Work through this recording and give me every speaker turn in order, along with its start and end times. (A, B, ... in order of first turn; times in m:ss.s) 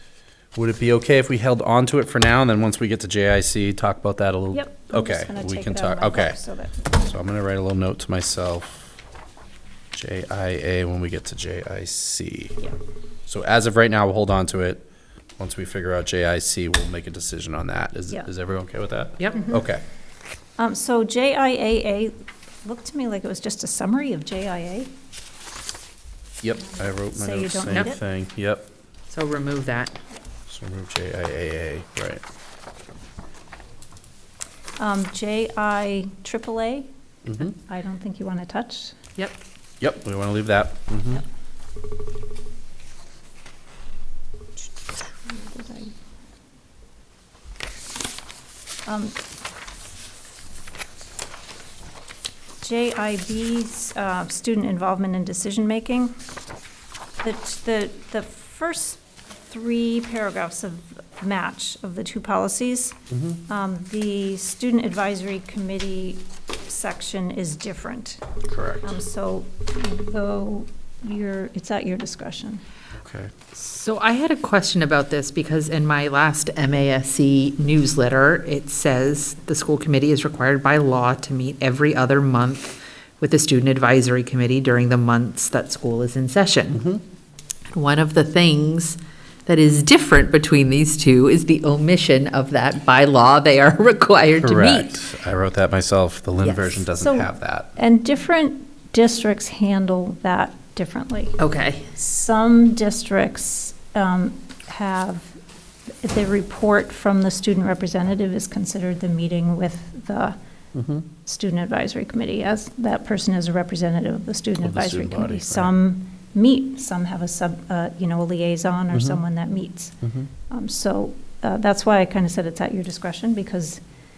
0:00.5-0:06.4 A
0:04.5-0:07.0 B
0:06.9-0:09.0 A
0:09.9-0:12.7 A
0:13.3-0:14.8 A
0:15.4-0:19.8 A
0:19.4-0:19.6 B
0:20.6-0:24.9 B
0:26.4-0:28.7 A
0:26.8-0:28.0 B
0:27.7-0:28.0 C
0:29.1-0:30.0 C
0:30.5-0:32.2 A
0:34.8-0:36.9 B
0:37.2-0:37.6 A
0:37.6-0:39.0 B
0:39.8-0:41.2 A
0:45.2-0:45.9 B
0:48.8-0:49.2 B
0:52.6-0:56.2 B
0:57.2-1:08.2 B
1:03.1-1:03.4 A
1:08.5-1:08.9 A
1:08.8-1:12.6 B
1:13.0-1:13.3 A
1:13.5-1:26.8 C
1:26.7-1:27.0 A
1:27.7-1:35.0 C
1:34.4-1:37.7 A
1:36.4-1:36.8 C
1:37.0-1:41.4 B
1:41.4-1:41.9 C
1:41.9-1:45.3 B
1:46.0-1:50.4 B
1:50.7-1:51.0 A
1:51.2-2:00.0 B
1:54.6-1:55.7 A
1:58.9-1:59.2 A
2:00.0-2:00.3 A
2:00.5-2:03.8 B